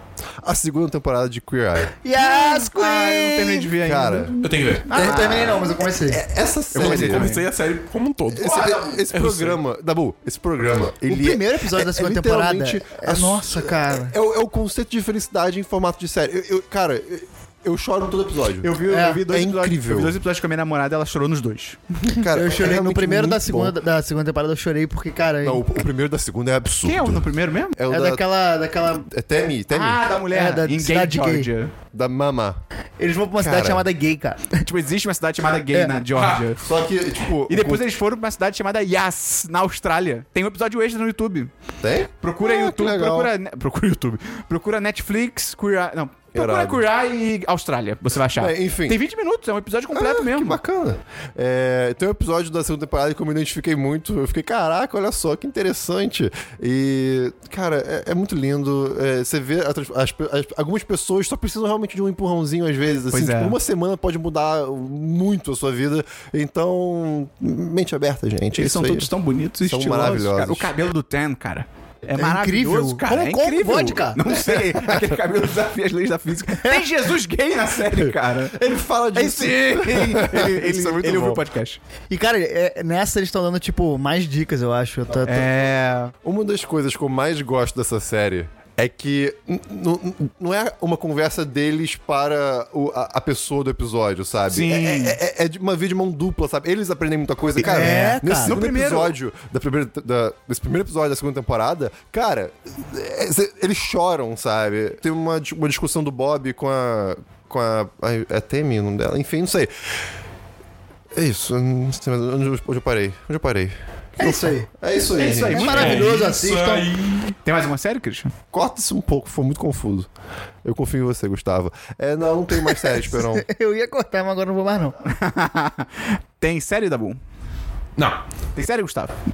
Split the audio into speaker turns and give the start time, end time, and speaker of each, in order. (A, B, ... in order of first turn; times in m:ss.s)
0:00.4-0:02.0 A
0:02.0-0:03.7 B
0:02.2-0:05.6 C
0:03.8-0:04.4 A
0:04.4-0:04.9 D
0:04.9-0:06.2 B
0:04.9-0:07.4 A
0:06.7-0:07.5 C
0:06.8-0:09.6 D
0:08.3-0:20.2 A
0:08.5-0:09.0 C
0:11.1-0:14.2 B
0:18.6-0:21.8 C
0:18.9-0:19.2 B
0:22.0-0:23.8 A
0:22.3-0:25.6 B
0:25.4-0:28.2 A
0:26.8-0:27.8 C
0:27.9-0:29.0 B
0:28.8-0:30.1 A
0:29.7-0:31.7 C
0:30.3-0:31.5 B
0:31.9-0:32.6 A
0:33.0-0:34.5 B
0:33.4-0:33.8 A
0:34.5-0:36.6 C
0:36.1-0:36.5 D
0:36.6-0:37.8 A
0:37.5-0:41.5 C
0:41.8-0:43.3 A
0:42.2-0:50.6 C
0:46.3-0:46.8 A
0:48.4-0:49.0 A
0:49.9-1:09.1 A
1:03.1-1:03.6 C
1:08.5-1:21.8 C
1:09.6-1:10.7 A
1:12.2-1:14.5 B
1:16.5-1:16.9 B
1:17.9-1:21.4 A
1:22.1-1:25.5 B
1:25.2-1:26.1 C
1:26.2-1:49.7 A
1:34.5-1:35.2 C
1:37.6-1:38.6 B
1:37.6-1:39.1 C
1:51.1-1:56.1 A
1:54.2-1:54.7 B
1:55.2-1:56.3 C
1:55.4-1:56.9 B
1:55.6-1:57.4 D
1:57.4-1:58.3 C
1:58.5-2:00.1 A
2:00.6-2:03.5 A
2:02.6-2:05.0 B
2:05.0-2:07.2 C
2:08.6-2:09.1 C